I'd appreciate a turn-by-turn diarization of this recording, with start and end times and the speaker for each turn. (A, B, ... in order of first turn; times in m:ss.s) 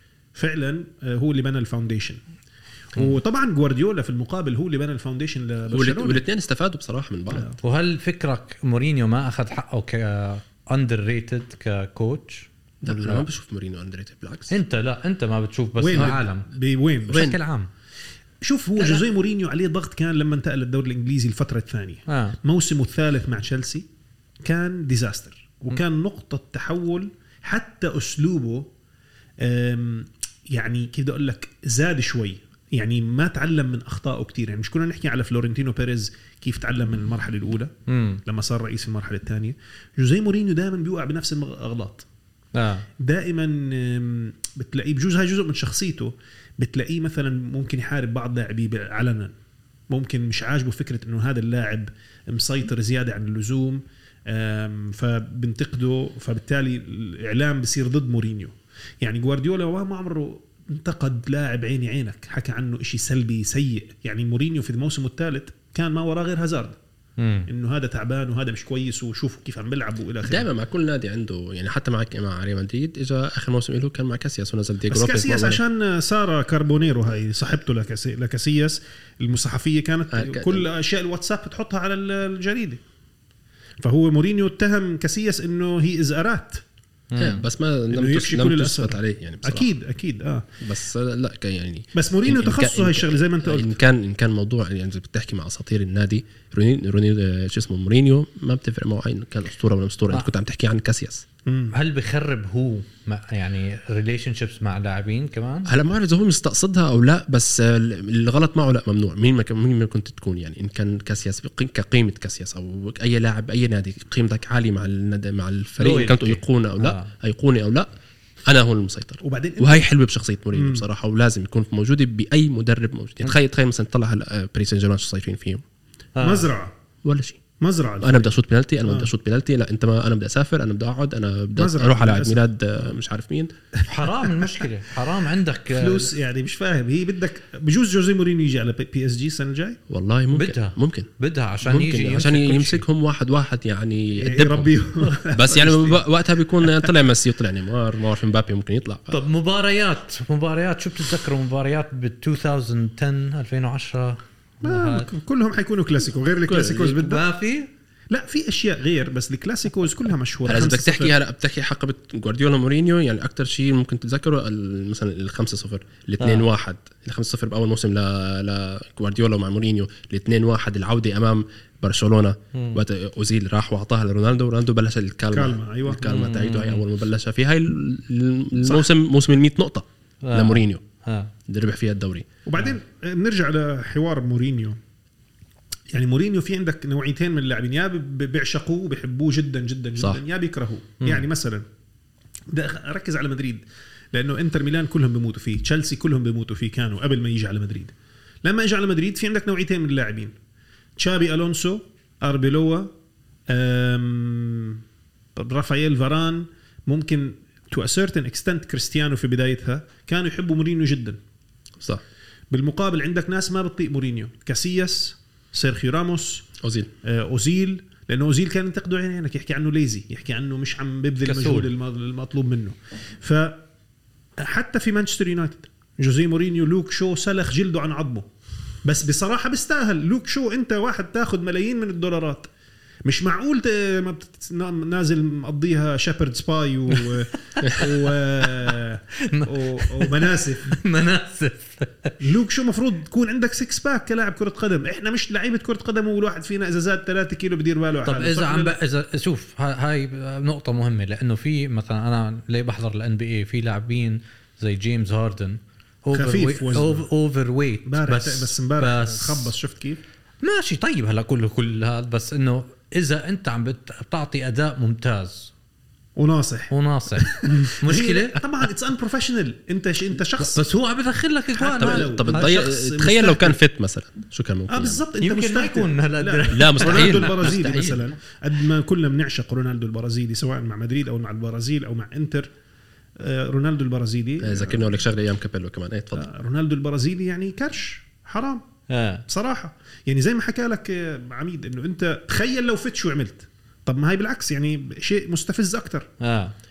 0:00.3-0:02.2 A
0:02.9-0:06.2 A
0:05.7-0:07.6 B
0:07.3-0:07.6 A
0:07.6-0:13.2 C
0:12.8-0:14.6 B
0:14.5-0:16.5 C
0:15.8-0:17.3 A
0:17.1-0:17.7 C
0:17.1-0:17.4 B
0:18.4-0:23.8 A
0:22.1-0:22.4 C
0:24.4-0:28.7 A
0:29.4-0:37.7 A
0:37.9-0:38.2 C
0:38.2-0:42.0 A
0:42.5-0:42.9 C
0:43.0-0:49.3 A
0:49.9-1:06.8 A
1:07.2-1:07.5 C
1:07.5-1:10.5 A
1:10.2-1:15.6 B
1:14.9-1:22.8 A
1:20.1-1:20.6 B
1:23.8-1:26.6 A
1:27.1-1:27.4 C
1:27.2-1:29.7 B
1:27.9-1:30.5 A
1:30.6-1:41.2 B
1:31.9-1:33.8 A
1:41.4-1:41.7 A
1:41.7-1:45.7 C
1:45.6-1:57.9 B
1:55.8-1:57.1 C
1:58.5-2:05.6 B
1:59.2-1:59.8 A
2:00.5-2:00.8 A
2:06.2-2:06.5 C
2:06.2-2:06.7 A
2:07.0-2:07.4 B
2:07.6-2:08.3 A
2:08.0-2:13.5 B
2:08.8-2:09.1 A
2:11.6-2:12.9 A
2:13.8-2:16.1 C
2:15.7-2:19.8 A
2:19.9-2:21.1 B
2:20.3-2:22.8 C
2:21.6-2:29.2 B
2:24.2-2:26.0 A
2:29.1-2:35.1 C
2:34.6-2:37.2 A
2:36.4-2:37.0 B
2:36.8-2:37.7 C
2:38.1-2:41.2 A
2:40.4-3:00.8 B
2:46.2-2:46.5 C
2:52.5-2:52.8 C
2:55.3-2:56.0 A
2:56.0-2:56.8 C
2:58.6-2:58.9 A
3:00.2-3:01.3 C
3:01.5-3:02.3 B
3:02.4-3:04.8 A
3:05.9-3:11.6 A
3:10.0-3:10.2 B
3:12.5-3:17.9 A
3:18.4-3:20.3 A
3:21.0-3:22.9 A
3:23.5-3:24.8 A
3:25.4-3:31.2 A
3:32.5-3:36.5 A
3:36.6-3:36.9 B
3:37.0-3:43.6 A
3:41.2-3:41.7 C
3:44.4-3:48.2 A
3:48.8-3:52.5 A
3:53.0-4:00.8 A
3:57.6-3:57.9 C
3:58.4-3:58.7 C
3:59.2-4:02.2 C
4:02.2-4:08.8 A
4:08.0-4:19.5 C
4:16.1-4:17.1 A
4:17.8-4:20.0 A
4:20.4-4:25.5 C
4:26.2-4:30.6 A
4:26.7-4:28.4 C
4:30.4-4:32.6 C
4:31.6-4:33.6 A
4:31.8-4:35.0 B
4:34.7-4:42.5 A
4:35.2-4:37.6 C
4:36.5-4:38.0 B
4:43.2-4:44.9 A
4:44.4-4:46.3 B
4:46.1-4:48.6 A
4:48.9-4:49.2 C
4:49.3-4:56.1 A
4:56.2-4:56.5 C